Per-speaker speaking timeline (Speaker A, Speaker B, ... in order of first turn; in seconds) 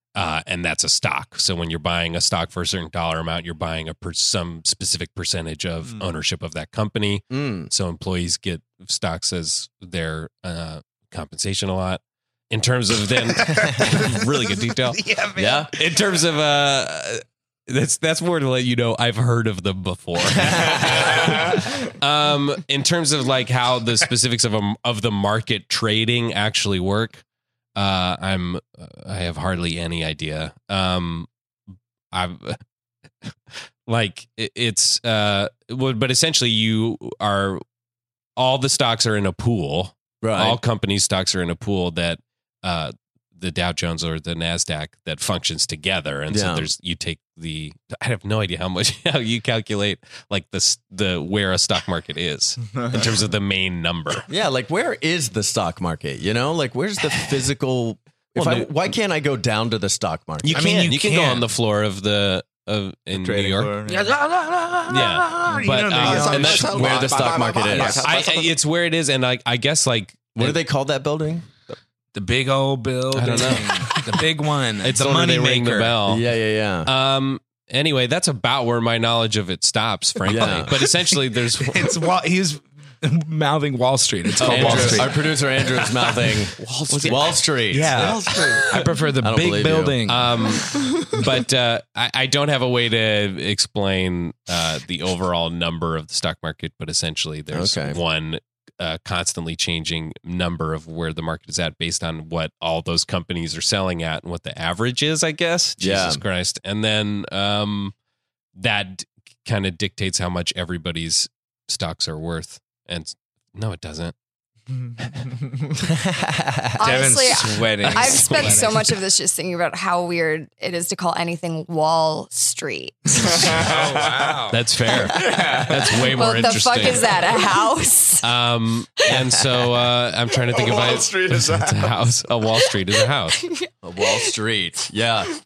Speaker A: 0.2-15.0, 15.7-27.2, 27.8-31.3, 32.1-32.6, 33.2-37.6, 38.4-54.3, 58.4-58.7, 60.4-63.7, 64.9-66.8, 68.0-70.6, 73.1-74.0, 74.8-76.3, 76.8-81.9, 84.4-85.2, 86.6-88.3, 90.1-107.9, 108.6-114.1, 118.2-118.6, 124.5-127.3, 128.2-133.4
Speaker B: 7.3-7.7, 15.4-15.7, 40.2-40.6, 46.3-46.7, 54.3-60.6, 66.3-68.0, 70.3-71.5, 76.0-76.9, 80.2-80.8, 84.4-88.1, 89.2-90.0, 97.5-98.0, 105.8-106.2, 116.0-116.6, 133.8-135.3
Speaker C: 13.4-15.7, 60.5-61.5, 63.9-68.1, 72.1-76.0, 81.6-85.4, 88.6-90.4, 116.8-119.0, 123.5-124.6
Speaker D: 52.8-53.1, 63.1-64.2, 66.0-68.5, 86.9-88.8, 114.8-115.4, 123.2-124.4, 125.0-126.1, 130.5-132.1
Speaker E: 116.8-123.6, 126.0-128.3, 133.4-134.3